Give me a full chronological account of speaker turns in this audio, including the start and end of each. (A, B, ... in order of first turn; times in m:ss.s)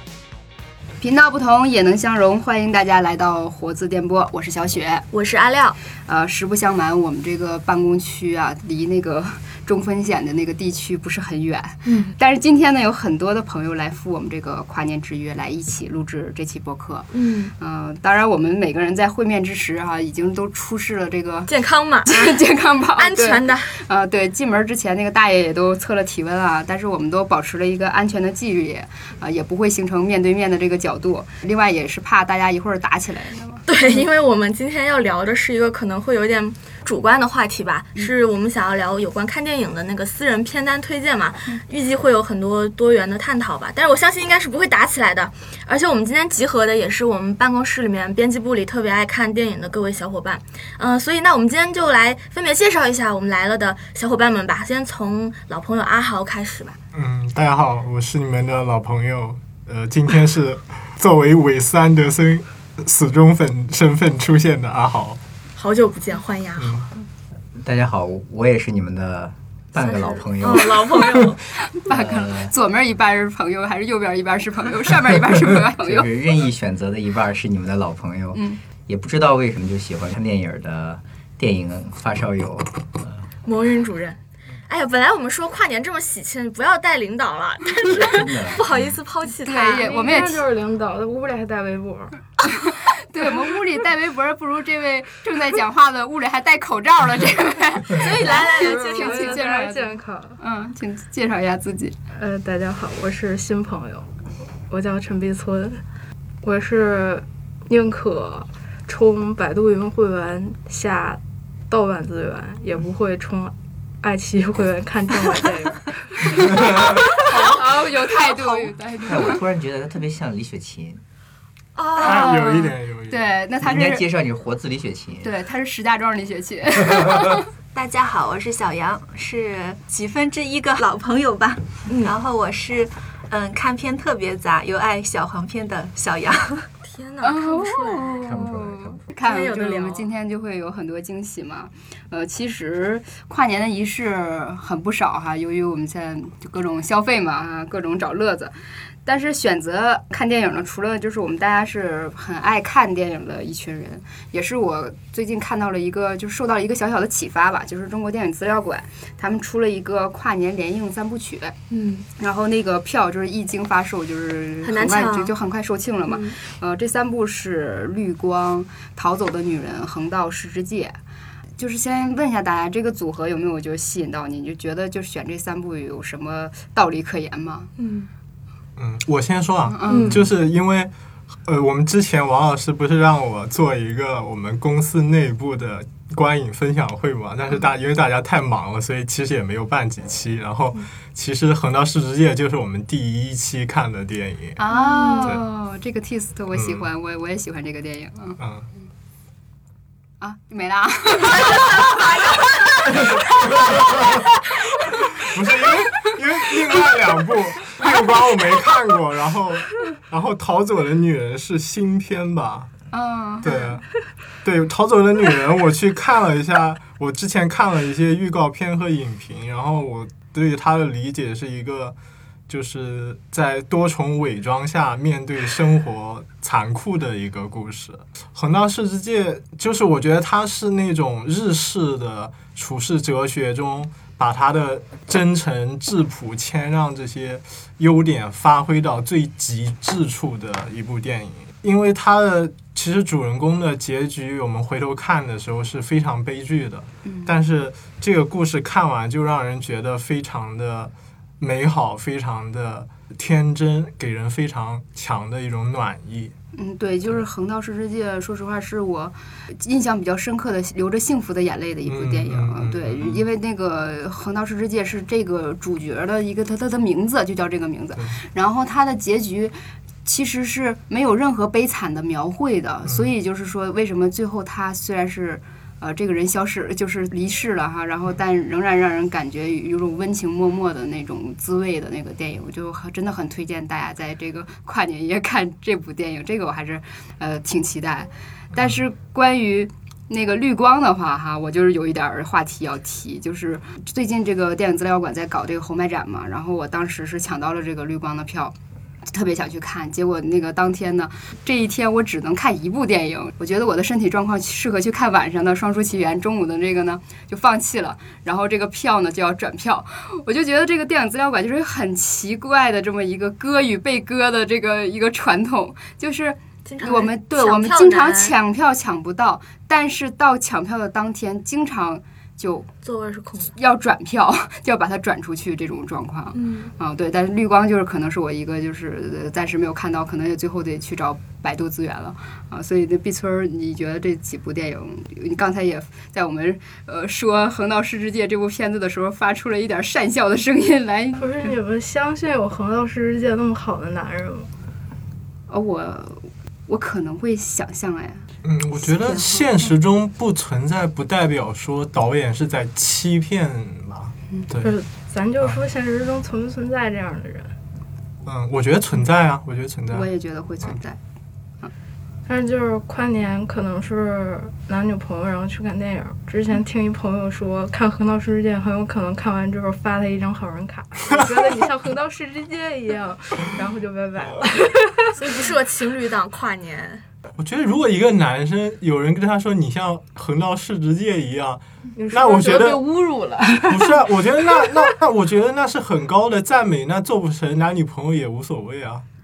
0:01.0-0:05.1 A
0:05.1-0:05.8 B
0:06.0-0:21.5 A
0:11.8-0:12.2 B
0:17.1-0:17.5 B
0:21.5-0:22.4 B
0:22.1-0:34.0 A
0:23.0-0:23.8 B
0:33.7-0:56.8 B
0:56.9-1:05.2 C
1:05.6-1:06.8 B
1:06.6-1:06.9 C
1:07.6-1:12.5 D
1:09.8-1:11.4 B
1:11.7-1:16.1 A
1:15.8-1:23.2 D
1:18.3-1:18.6 A
1:23.4-1:30.3 B
1:27.9-1:28.6 D
1:29.4-1:30.4 A
1:29.8-1:32.2 E
1:32.5-1:39.9 A
1:37.9-1:39.6 B
1:38.5-1:40.4 E
1:40.4-1:42.0 A
1:42.1-1:44.1 E
1:44.7-1:45.8 E
1:46.4-1:56.7 E
1:57.1-1:59.4 A
1:59.0-2:01.0 D
2:01.8-2:02.3 F
2:02.0-2:03.3 C
2:02.0-2:04.0 A
2:03.6-2:05.3 D
2:05.2-2:07.4 A
2:07.7-2:16.7 F
2:11.9-2:12.2 B
2:16.8-2:18.2 B
2:17.2-2:28.5 A
2:18.2-2:19.0 D
2:19.2-2:20.1 B
2:29.0-2:41.6 A
2:41.7-2:42.1 B
2:42.2-2:51.0 A
2:44.6-2:45.3 B
2:46.1-2:46.4 B
2:51.6-2:57.7 A
2:57.8-2:58.1 B
2:58.8-3:00.9 C
2:59.7-3:00.2 A
2:59.9-3:00.3 B
3:01.4-3:14.6 C
3:14.6-3:18.4 A
3:14.7-3:15.4 B
3:16.5-3:16.9 C
3:18.4-3:18.7 C
3:20.2-3:21.8 A
3:25.2-3:32.8 C
3:32.9-3:33.6 A
3:33.4-3:42.0 C
3:42.5-4:16.4 C
4:07.0-4:07.4 A
4:16.5-4:58.6 A
4:21.9-4:23.2 C
4:59.1-5:22.7 A
5:16.6-5:18.3 B
5:22.8-5:23.5 B
5:23.5-5:41.5 A
5:26.3-5:26.7 B
5:41.2-5:44.5 E
5:45.5-5:48.3 A
5:48.4-5:54.7 C
5:48.8-5:49.4 A
5:54.6-5:57.6 E
5:58.2-6:00.1 C
5:59.9-6:01.0 A
6:02.3-6:15.4 E
6:15.2-6:17.0 B
6:17.4-6:22.9 C
6:22.0-6:24.9 E
6:23.7-6:29.0 C